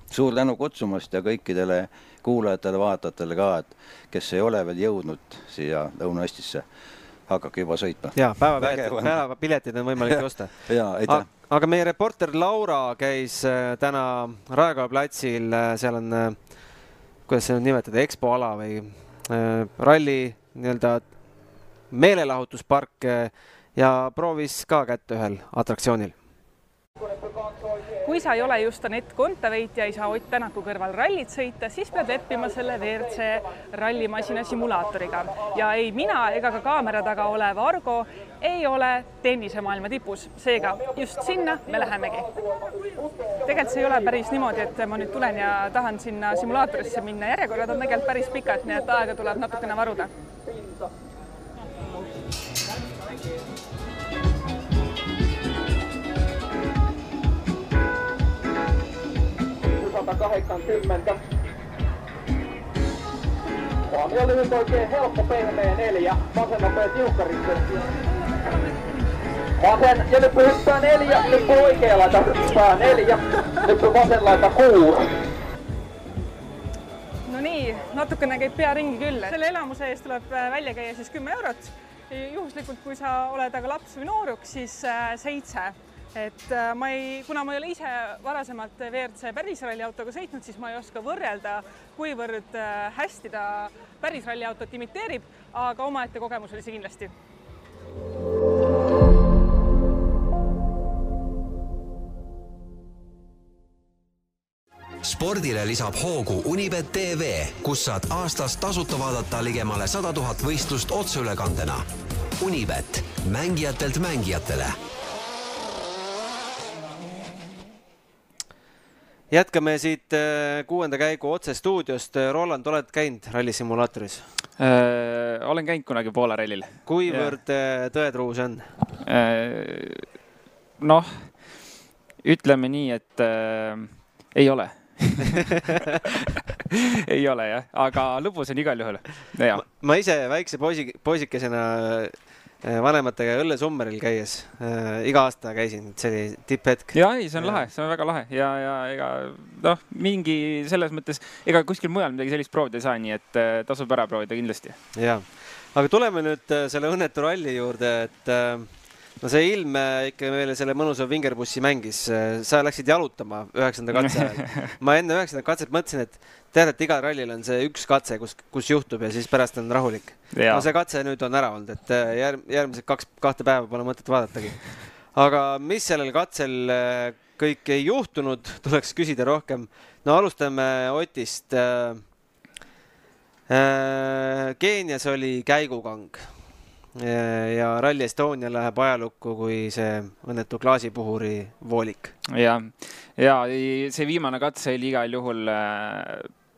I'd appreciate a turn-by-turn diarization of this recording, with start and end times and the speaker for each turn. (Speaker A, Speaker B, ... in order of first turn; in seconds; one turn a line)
Speaker A: 0.1-6.6
Speaker A: 7.3-9.1
Speaker B: 8.2-16.4
Speaker A: 10.7-11.3
Speaker B: 17.3-21.1
Speaker B: 21.9-26.1
Speaker C: 28.0-42.4
Speaker C: 43.3-50.1
Speaker D: 59.7-61.2
Speaker D: 63.9-67.9
Speaker D: 69.6-75.1
Speaker C: 77.2-97.1
Speaker E: 105.0-111.8
Speaker E: 112.4-114.8
Speaker B: 119.3-124.2
Speaker F: 124.6-127.3
Speaker B: 126.8-128.7
Speaker F: 129.0-130.1
Speaker F: 130.8-131.3
Speaker F: 132.2-139.6
Speaker B: 139.6-147.6
Speaker F: 146.9-154.8
Speaker B: 154.9-182.0
Speaker F: 164.1-164.6
Speaker F: 170.3-170.6
Speaker B: 183.5-186.3
Speaker B: 186.9-192.1
Speaker F: 192.3-196.3